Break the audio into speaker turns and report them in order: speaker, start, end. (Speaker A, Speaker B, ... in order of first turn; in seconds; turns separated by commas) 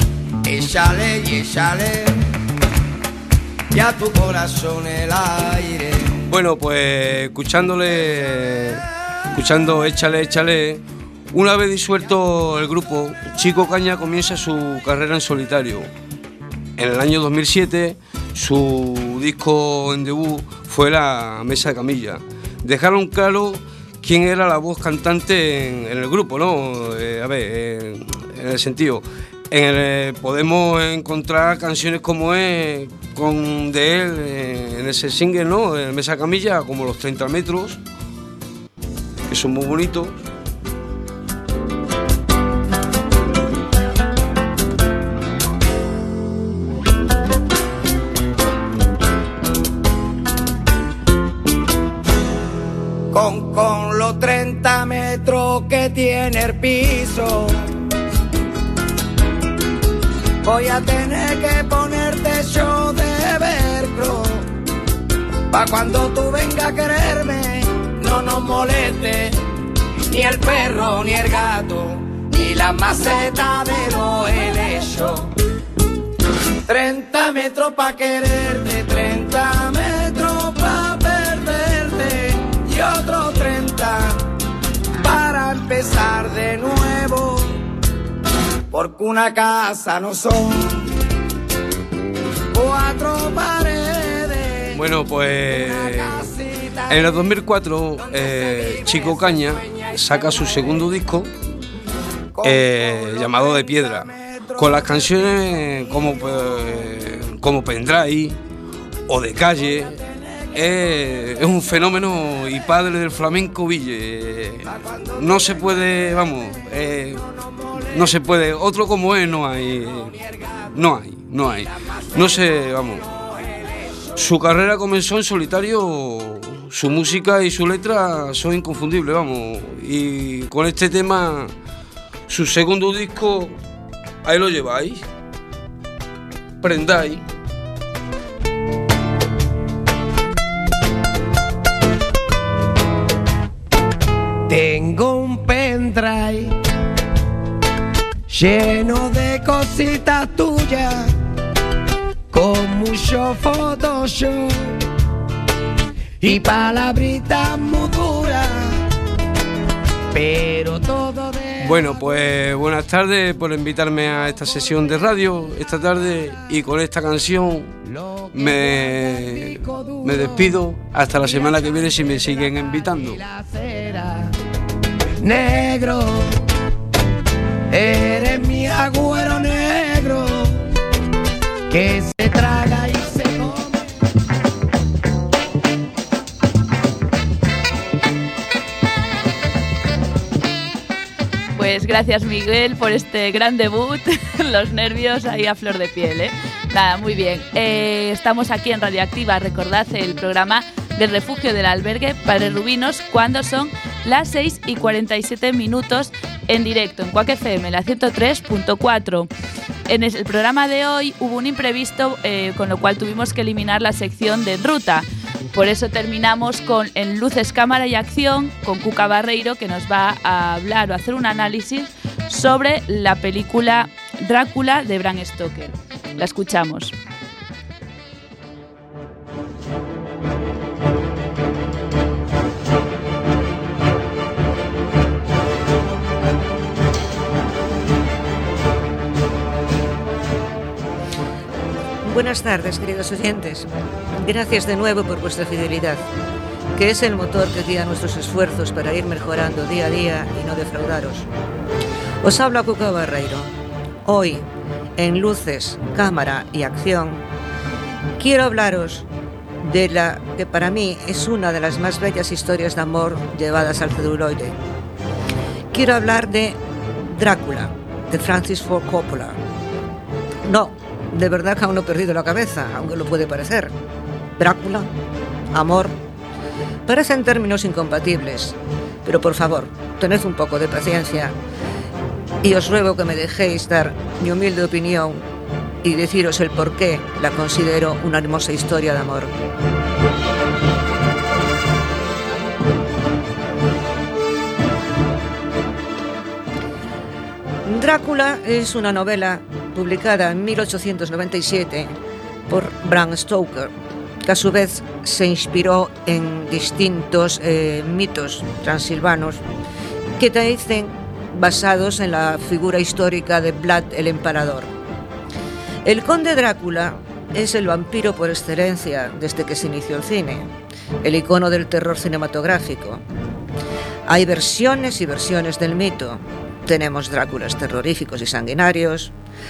Speaker A: 0.4-2.3, Speaker A: 3.7-6.2, Speaker B: 6.3-15.9, Speaker B: 16.8-37.8, Speaker B: 39.3-40.2, Speaker A: 53.1-57.6, Speaker A: 60.4-64.5, Speaker A: 65.5-69.4, Speaker A: 70.1-75.3, Speaker A: 76.7-84.3, Speaker A: 85.0-87.6, Speaker A: 88.7-90.9, Speaker A: 92.5-94.8, Speaker B: 94.7-96.3, Speaker A: 95.5-97.1, Speaker B: 96.9-101.3, Speaker A: 98.3-100.5, Speaker A: 102.3-104.0, Speaker B: 102.4-108.4, Speaker B: 109.1-110.0, Speaker B: 110.5-117.2, Speaker B: 117.9-123.1, Speaker B: 124.2-131.5, Speaker B: 132.3-133.6, Speaker B: 134.2-135.1, Speaker B: 136.6-137.2, Speaker A: 144.5-146.6, Speaker A: 148.3-151.1, Speaker A: 152.3-154.8, Speaker A: 156.2-158.8, Speaker A: 160.1-161.9, Speaker B: 161.6-167.8, Speaker B: 168.3-173.2, Speaker A: 168.3-170.5, Speaker A: 171.4-174.3, Speaker A: 175.2-176.4, Speaker A: 177.7-180.6, Speaker A: 181.7-183.9, Speaker C: 191.6-209.3, Speaker C: 209.9-226.9, Speaker D: 242.0-246.1, Speaker D: 246.8-251.3, Speaker D: 252.2-253.5, Speaker D: 254.1-254.5, Speaker D: 255.0-257.2, Speaker D: 258.2-259.1, Speaker D: 259.6-264.6, Speaker D: 265.7-269.4, Speaker D: 270.5-273.7, Speaker D: 274.4-274.9, Speaker D: 275.5-275.9, Speaker D: 276.9-281.4, Speaker D: 282.4-285.2, Speaker D: 285.8-289.3, Speaker D: 297.7-301.9, Speaker D: 302.5-303.7, Speaker D: 304.2-309.4, Speaker D: 310.2-314.7, Speaker D: 315.9-320.5, Speaker D: 321.0-323.0, Speaker D: 324.1-329.1